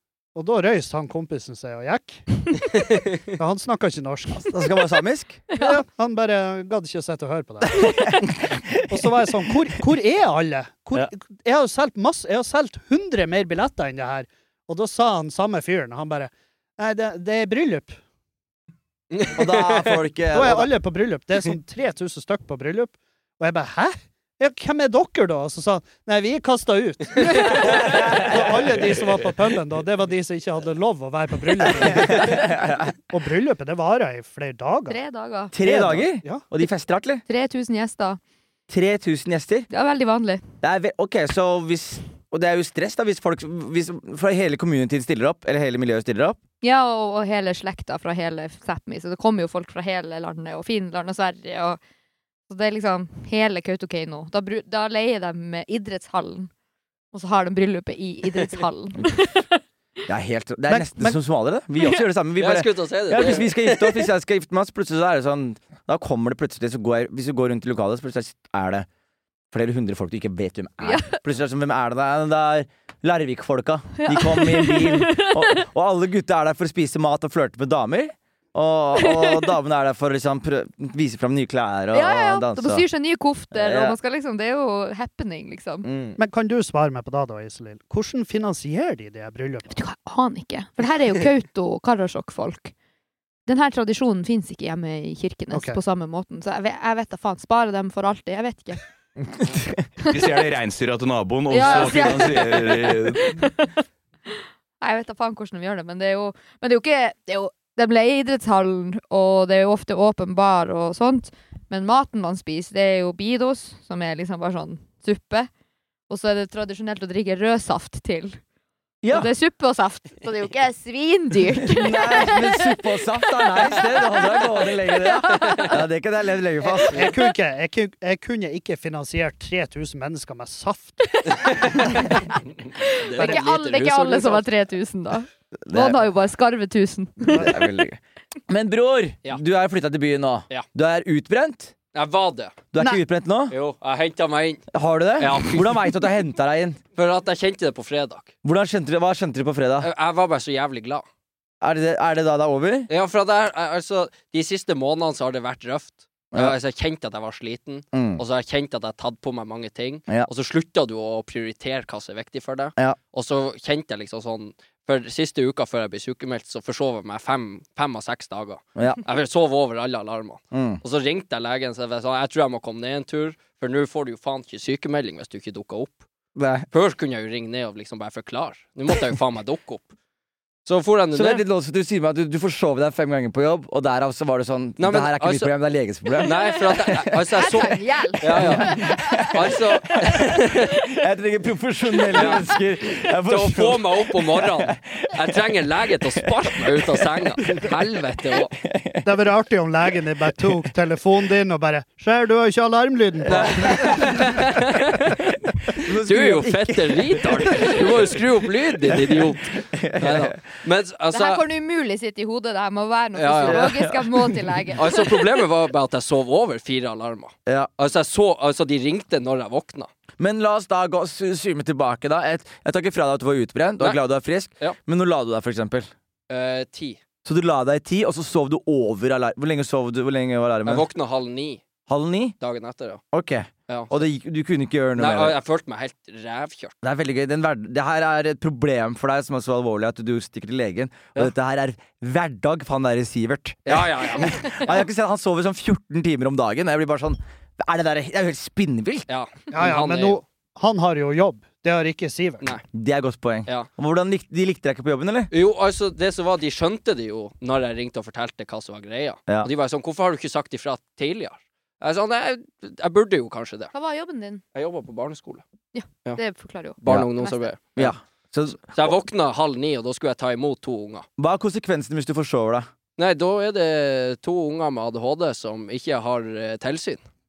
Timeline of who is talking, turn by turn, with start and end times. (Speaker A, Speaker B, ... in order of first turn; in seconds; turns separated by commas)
Speaker A: 0.3-4.6, Speaker B: 4.5-5.4, Speaker A: 5.5-8.1, Speaker B: 8.5-9.1, Speaker A: 8.9-18.0, Speaker C: 19.1-19.9, Speaker B: 19.3-20.7, Speaker A: 20.3-35.0, Speaker B: 27.5-28.6, Speaker B: 31.8-32.9, Speaker D: 34.9-35.5, Speaker B: 35.5-37.2, Speaker A: 35.6-36.4, Speaker D: 37.3-38.2, Speaker B: 38.7-39.7, Speaker D: 39.7-40.4, Speaker B: 40.6-46.4, Speaker D: 46.6-51.8, Speaker D: 52.5-56.5, Speaker D: 57.1-59.6, Speaker B: 60.1-68.9, Speaker A: 60.7-61.1, Speaker C: 62.4-64.0, Speaker B: 69.5-82.8, Speaker D: 70.8-71.2, Speaker D: 74.0-75.6, Speaker D: 79.0-79.5, Speaker D: 81.9-85.9, Speaker B: 83.5-84.0, Speaker B: 85.8-86.2, Speaker A: 86.2-89.8, Speaker D: 89.7-92.7, Speaker D: 93.5-98.8, Speaker A: 95.5-95.8, Speaker E: 100.0-103.5, Speaker D: 101.5-115.5, Speaker D: 116.1-118.4, Speaker B: 119.0-119.3, Speaker D: 119.1-122.8, Speaker B: 121.7-127.1, Speaker D: 123.6-125.8, Speaker A: 126.8-132.2, Speaker D: 132.8-137.6, Speaker C: 133.0-134.4, Speaker B: 135.7-136.0, Speaker B: 137.2-141.7, Speaker C: 141.9-142.6, Speaker B: 142.7-143.6, Speaker C: 143.5-144.7, Speaker B: 144.7-146.8, Speaker C: 145.2-145.9, Speaker C: 146.9-148.3, Speaker B: 148.4-149.9, Speaker C: 149.8-151.1, Speaker B: 151.6-152.9, Speaker C: 152.9-176.1, Speaker B: 157.9-158.2, Speaker B: 168.8-169.0, Speaker B: 170.5-170.8, Speaker B: 176.3-176.7, Speaker C: 176.7-179.9, Speaker C: 180.7-181.4, Speaker B: 181.1-187.3, Speaker C: 184.8-185.5, Speaker D: 186.2-186.5, Speaker C: 186.2-190.7, Speaker D: 187.3-189.3, Speaker B: 188.3-195.4, Speaker C: 192.1-192.4, Speaker C: 193.2-198.6, Speaker B: 196.4-197.7, Speaker B: 198.7-199.0, Speaker A: 199.0-204.3, Speaker B: 200.3-200.6, Speaker B: 203.3-204.3, Speaker C: 203.3-211.4, Speaker B: 205.7-208.2, Speaker B: 208.9-210.4, Speaker D: 211.1-215.1, Speaker C: 213.2-213.7, Speaker B: 213.4-214.4, Speaker C: 214.8-219.9, Speaker B: 220.2-225.9, Speaker C: 226.3-227.0, Speaker B: 227.2-230.9, Speaker C: 230.7-231.6, Speaker B: 231.9-232.4, Speaker C: 232.4-233.0, Speaker B: 233.1-235.4, Speaker C: 233.7-234.0, Speaker C: 235.0-236.8, Speaker B: 236.8-249.1, Speaker C: 243.7-244.7, Speaker C: 249.1-250.2, Speaker A: 249.5-252.5, Speaker B: 252.7-255.3, Speaker C: 255.3-263.7, Speaker D: 263.7-264.4, Speaker C: 264.5-265.4, Speaker D: 265.7-267.5, Speaker C: 266.8-267.9, Speaker B: 267.8-268.9, Speaker C: 268.7-271.1, Speaker B: 271.2-272.7, Speaker C: 273.0-277.0